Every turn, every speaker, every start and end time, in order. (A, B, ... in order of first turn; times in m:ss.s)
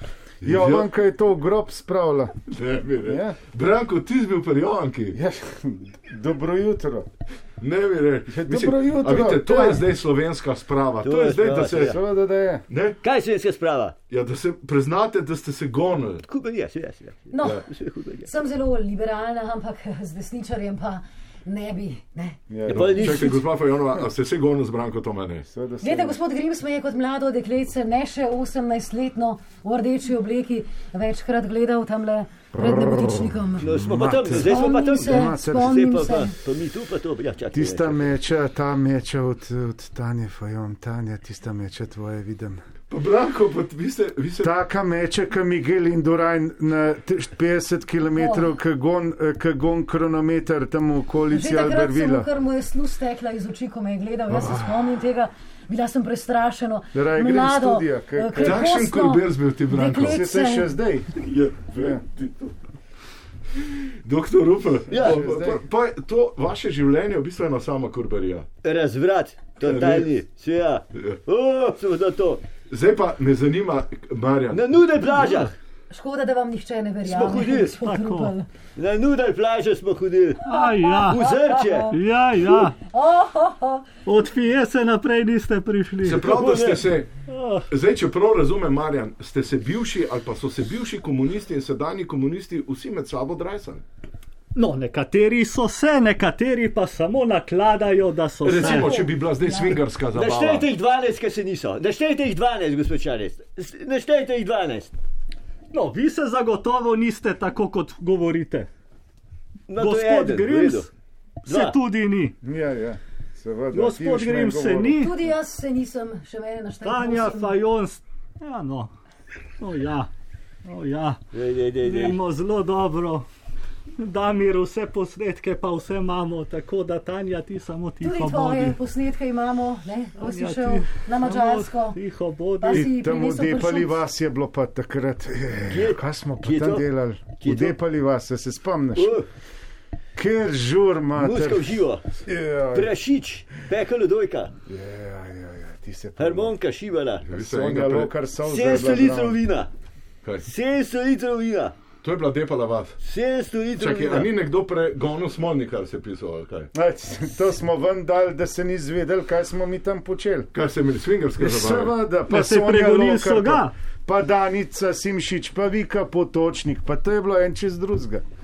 0:00.4-0:02.4 A
0:00.4-0:00.9 B
0:02.5-0:05.2 B
0:03.0-0:03.4 A
0:05.1-0:07.1 A
0:07.6-0:12.0 B
0:08.3-0:09.8 A
0:11.0-0:12.0 C
0:11.7-0:12.6 A
0:12.7-0:13.0 B
0:13.0-0:14.0 C
0:14.1-0:16.2 B
0:16.2-0:18.3 C
0:17.3-0:17.6 D
0:18.2-0:22.4 D
0:22.5-0:23.2 A
0:22.7-0:23.4 C
0:22.7-0:25.4 B
0:25.4-0:26.2 A
0:25.8-0:36.4 D
0:32.5-0:35.8 A
0:33.6-0:38.1 C
0:37.5-0:42.6 A
0:42.9-0:44.5 B
0:44.4-0:52.3 A
0:48.2-0:48.5 D
0:51.3-1:00.7 D
0:54.3-0:54.7 A
0:56.9-0:58.7 A
0:58.4-1:00.2 B
1:00.0-1:01.1 A
1:01.1-1:02.5 B
1:03.6-1:08.5 B
1:04.9-1:05.2 C
1:04.9-1:05.6 A
1:08.6-1:12.4 C
1:09.6-1:10.1 B
1:12.7-1:14.8 B
1:14.5-1:15.6 C
1:15.9-1:18.5 D
1:17.0-1:17.8 C
1:17.8-1:18.3 E
1:18.8-1:20.5 C
1:20.4-1:21.3 E
1:20.5-1:21.9 D
1:21.1-1:21.9 C
1:21.9-1:22.7 E
1:22.5-1:23.9 D
1:24.0-1:26.2 E
1:26.0-1:27.1 B
1:26.2-1:26.9 C
1:27.3-1:27.7 E
1:27.7-1:33.8 B
1:34.5-1:39.1 E
1:38.4-1:40.7 B
1:40.1-1:44.9 C
1:45.7-1:48.7 E
1:49.7-1:50.9 C
1:49.7-1:50.9 E
1:51.4-1:52.4 E
1:51.4-1:51.8 C
1:52.4-1:55.0 A
1:53.7-1:55.1 E
1:55.0-1:57.5 D
1:56.8-1:58.9 E
1:59.6-2:00.1 E
2:00.6-2:01.2 E
2:01.3-2:02.2 C
2:01.7-2:03.2 E
2:04.0-2:08.8 E
2:08.0-2:12.0 D
2:10.2-2:12.9 E
2:12.6-2:14.0 D
2:12.7-2:19.2 A
2:15.7-2:16.8 C
2:17.4-2:17.7 C
2:18.9-2:19.3 C
2:20.2-2:22.9 A
2:21.2-2:22.0 C
2:22.7-2:24.5 C
2:24.7-2:26.5 A
2:26.2-2:27.2 C
2:27.2-2:28.1 B
2:27.3-2:29.4 A
2:28.4-2:29.7 C
2:30.4-2:31.7 C
2:32.0-2:33.0 B
2:33.0-2:34.3 C
2:33.8-2:36.7 B
2:36.7-2:40.5 A
2:40.5-2:41.9 B
2:41.4-2:48.2 A
2:42.3-2:43.7 E